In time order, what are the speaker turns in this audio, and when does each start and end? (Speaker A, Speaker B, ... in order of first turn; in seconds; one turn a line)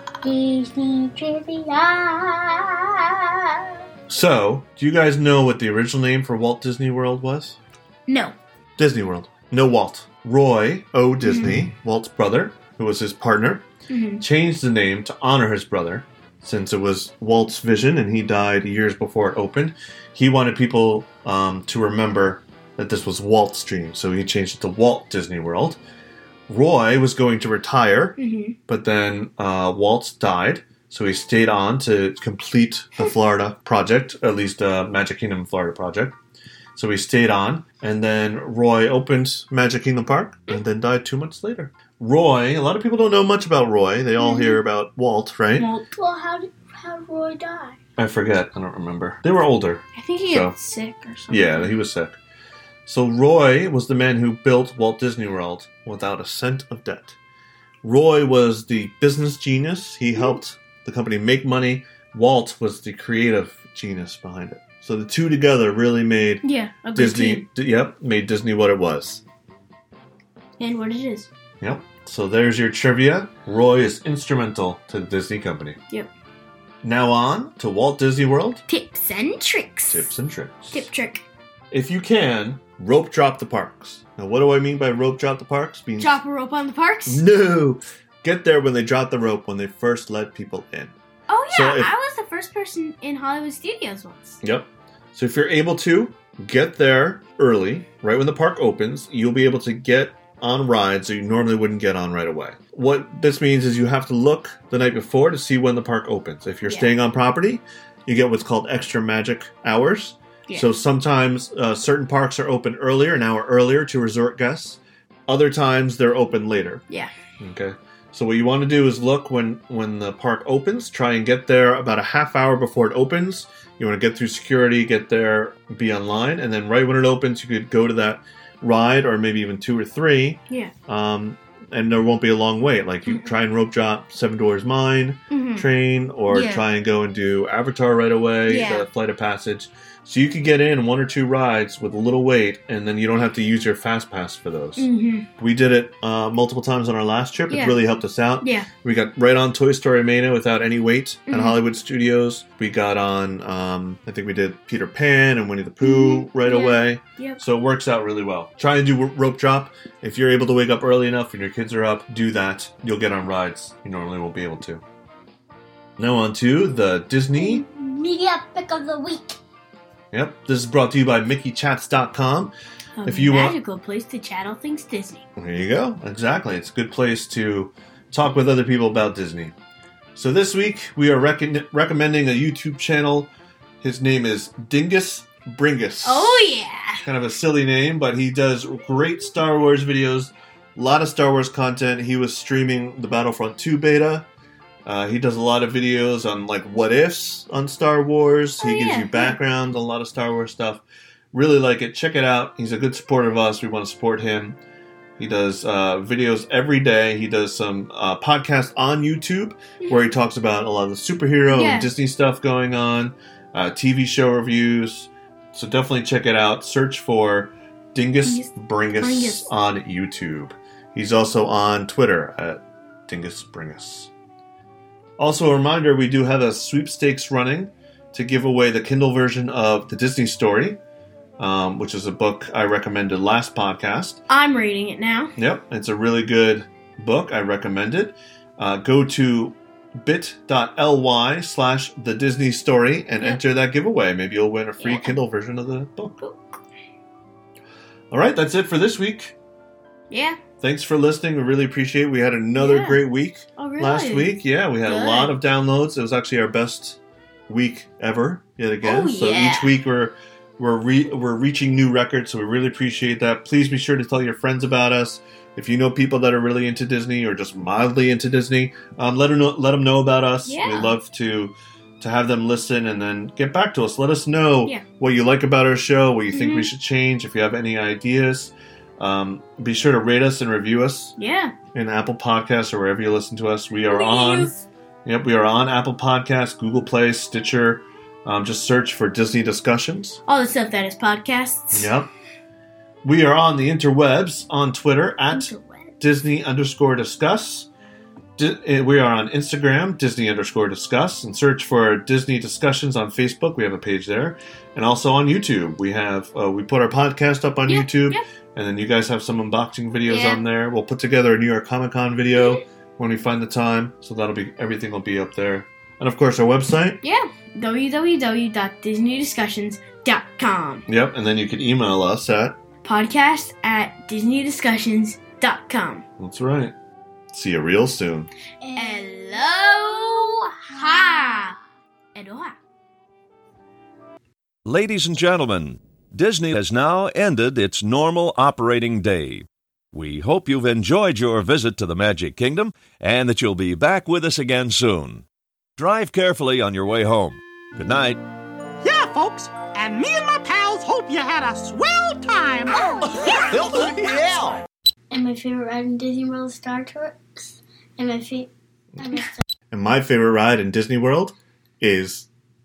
Speaker A: 0.2-3.6
Speaker B: 4.1-7.6
Speaker C: 8.1-8.4
Speaker B: 8.8-13.7
Speaker C: 11.2-11.6
Speaker C: 13.9-14.2
Speaker B: 14.2-25.8
Speaker B: 26.5-36.2
Speaker C: 28.2-28.6
Speaker B: 36.8-45.7
Speaker C: 44.2-44.6
Speaker C: 45.6-45.9
Speaker A: 45.9-47.8
Speaker B: 48.0-50.6
Speaker C: 50.0-51.8
Speaker B: 51.3-52.2
Speaker B: 52.9-57.2
Speaker B: 57.8-66.4
Speaker C: 66.4-67.5
Speaker B: 66.9-69.2
Speaker C: 70.6-71.3
Speaker B: 71.6-75.8
Speaker B: 76.8-78.6
Speaker C: 78.7-80.1
Speaker B: 79.9-80.9
Speaker C: 80.7-81.2
Speaker B: 81.7-86.2
Speaker C: 86.0-87.2
Speaker B: 87.1-91.0
Speaker C: 91.3-94.4
Speaker B: 91.5-91.9
Speaker B: 94.4-116.8
Speaker C: 106.7-106.9
Speaker B: 117.4-164.8
Speaker C: 135.3-135.7
Speaker C: 136.3-136.7
Speaker C: 138.5-138.9
Speaker C: 144.8-145.3
Speaker C: 147.5-147.8
Speaker C: 148.4-148.7
Speaker C: 151.3-151.6
Speaker C: 155.8-157.4
Speaker B: 166.0-167.6
Speaker A: 167.3-169.4
Speaker B: 170.1-172.5
Speaker C: 173.0-175.2
Speaker B: 173.1-173.6
Speaker B: 175.4-179.5
Speaker B: 180.2-183.3
Speaker B: 183.8-194.3
Speaker C: 186.0-187.0
Speaker B: 194.8-204.6
Speaker C: 198.6-199.4
Speaker B: 205.2-224.1
Speaker C: 211.5-211.9
Speaker C: 218.2-219.5
Speaker B: 225.2-230.8
Speaker B: 231.4-234.2
Speaker C: 234.3-235.3
Speaker B: 235.4-246.2
Speaker C: 244.8-245.2
Speaker C: 246.2-246.6
Speaker B: 248.1-249.3
Speaker C: 250.1-250.4
Speaker B: 250.6-281.1
Speaker C: 252.6-253.0
Speaker C: 253.6-254.3
Speaker C: 254.8-255.3
Speaker C: 258.8-259.7
Speaker C: 270.4-271.0
Speaker C: 276.3-276.7
Speaker C: 281.2-281.5
Speaker B: 281.7-284.5
Speaker C: 283.9-284.6
Speaker B: 285.1-290.2
Speaker C: 290.3-291.9
Speaker B: 291.7-292.1
Speaker B: 293.0-297.7
Speaker C: 295.3-295.9
Speaker B: 298.4-317.0
Speaker C: 307.7-308.2
Speaker C: 310.1-310.4
Speaker C: 312.4-312.6
Speaker C: 317.0-320.9
Speaker B: 320.9-322.6
Speaker C: 322.8-326.0
Speaker B: 326.2-326.7
Speaker B: 327.3-328.3
Speaker A: 328.6-331.6
Speaker C: 328.8-331.6
Speaker C: 332.1-332.6
Speaker D: 334.6-345.2
Speaker D: 345.8-348.2
Speaker E: 348.8-354.6
Speaker D: 353.0-354.6
Speaker A: 355.1-359.4
Speaker B: 359.7-362.3